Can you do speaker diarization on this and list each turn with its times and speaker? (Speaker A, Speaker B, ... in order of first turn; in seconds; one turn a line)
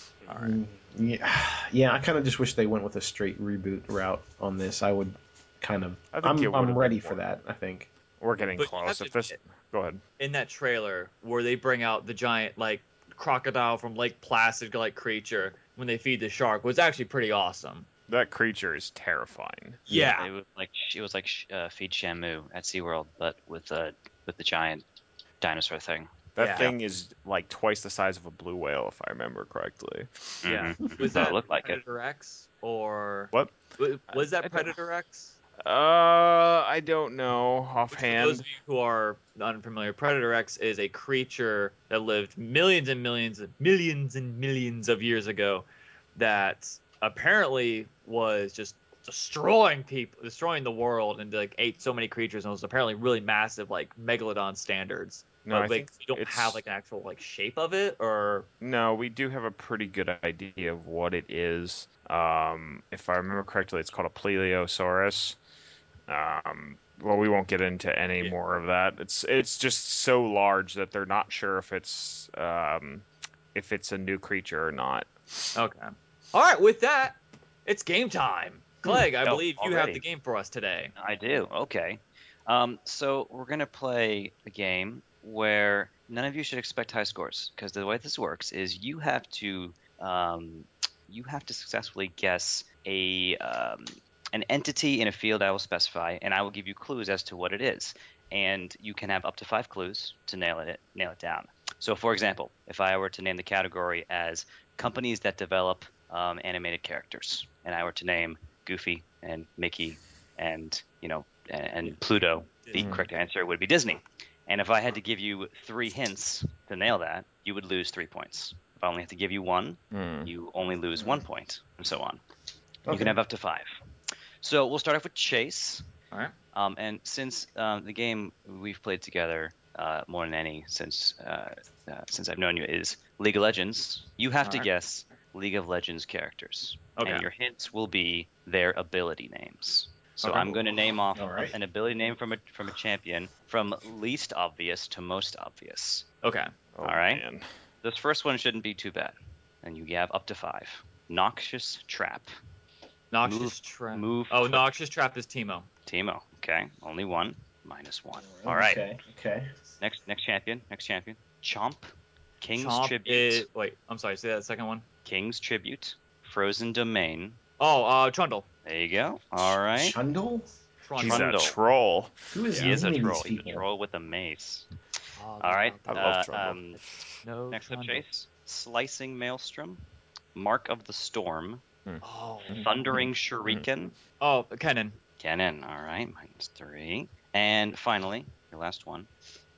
Speaker A: 0.3-0.6
Speaker B: 0.4-7.9
Speaker C: 6.1-7.2
Speaker C: 8.2-10.0
Speaker A: 8.6-9.4
Speaker A: 10.2-17.9
Speaker C: 18.1-19.9
Speaker A: 19.9-20.3
Speaker D: 19.9-24.8
Speaker D: 25.4-26.8
Speaker C: 26.4-30.5
Speaker A: 26.4-26.7
Speaker D: 30.4-31.8
Speaker A: 30.4-35.4
Speaker C: 33.3-33.6
Speaker C: 34.1-34.8
Speaker C: 35.6-38.5
Speaker A: 37.9-58.5
Speaker C: 55.5-56.6
Speaker C: 58.6-65.4
Speaker C: 66.1-75.5
Speaker A: 75.5-80.9
Speaker D: 79.2-80.0
Speaker D: 81.0-122.2
Speaker A: 112.6-112.9
Speaker C: 112.8-113.1
Speaker C: 119.9-120.3
Speaker B: 121.0-121.2
Speaker B: 122.9-123.2
Speaker D: 122.9-123.7
Speaker D: 124.4-125.8
Speaker D: 126.5-146.1
Speaker A: 137.0-137.2
Speaker B: 141.2-141.6
Speaker A: 146.2-146.5
Speaker C: 146.7-147.5
Speaker D: 146.8-147.2
Speaker D: 147.8-152.3
Speaker A: 153.1-155.7
Speaker D: 153.2-154.7
Speaker D: 155.9-158.9
Speaker B: 158.2-159.5
Speaker D: 159.8-161.9
Speaker D: 162.4-163.4
Speaker A: 162.6-164.8
Speaker D: 165.1-167.4
Speaker A: 167.6-168.4
Speaker D: 168.7-170.0
Speaker B: 169.8-170.5
Speaker A: 170.8-171.3
Speaker D: 171.0-171.6
Speaker C: 171.0-172.2
Speaker B: 172.3-173.6
Speaker D: 172.5-174.7
Speaker A: 175.2-176.2
Speaker D: 175.4-176.8
Speaker C: 175.9-176.6
Speaker A: 177.2-178.0
Speaker D: 177.5-179.8
Speaker D: 180.3-181.6
Speaker C: 181.9-183.7
Speaker A: 182.0-182.8
Speaker D: 182.5-183.9
Speaker A: 184.2-185.0
Speaker D: 185.2-189.1